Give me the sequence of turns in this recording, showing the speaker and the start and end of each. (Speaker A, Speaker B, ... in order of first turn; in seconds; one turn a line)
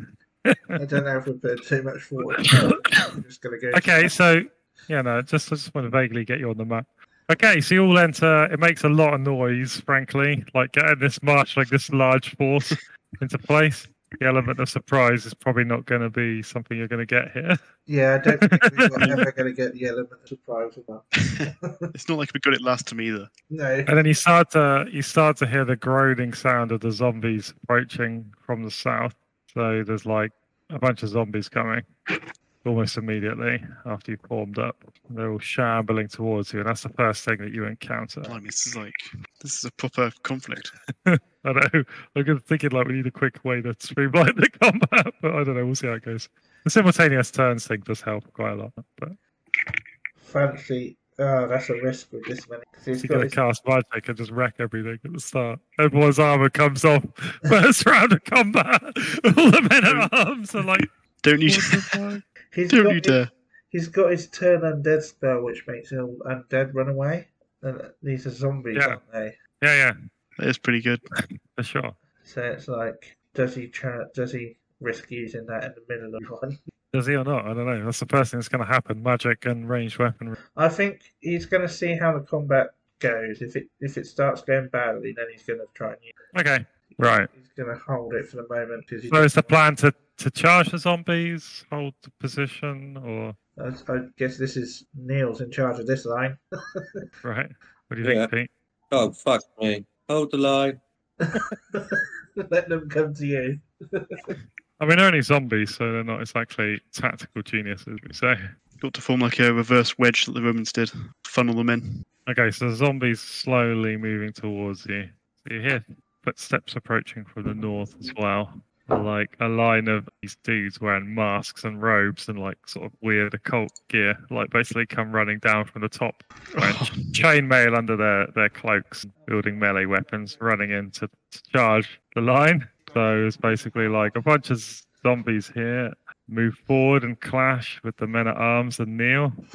Speaker A: 0.5-0.8
Speaker B: 0.8-4.1
Speaker A: 2.3-3.1
Speaker A: 3.7-17.6
Speaker B: 17.9-21.9
Speaker A: 18.3-19.2
Speaker C: 19.0-19.2
Speaker C: 21.4-23.3
Speaker B: 23.5-23.9
Speaker A: 23.9-31.9
Speaker A: 32.6-38.4
Speaker C: 38.2-40.7
Speaker A: 41.0-49.2
Speaker B: 50.2-53.3
Speaker A: 53.0-60.9
Speaker C: 59.8-62.0
Speaker A: 61.5-62.2
Speaker B: 62.5-63.2
Speaker C: 62.7-63.3
Speaker B: 63.7-69.4
Speaker A: 69.6-70.0
Speaker C: 70.4-71.0
Speaker A: 71.5-72.0
Speaker B: 72.2-76.6
Speaker A: 76.9-80.4
Speaker B: 80.6-86.1
Speaker A: 86.3-87.3
Speaker B: 87.0-89.5
Speaker A: 89.1-93.4
Speaker B: 93.6-96.9
Speaker A: 97.2-98.5
Speaker D: 98.0-98.3
Speaker D: 98.9-100.8
Speaker B: 101.2-104.3
Speaker A: 104.8-108.4
Speaker C: 108.8-112.0
Speaker A: 112.3-139.4
Speaker C: 126.5-127.1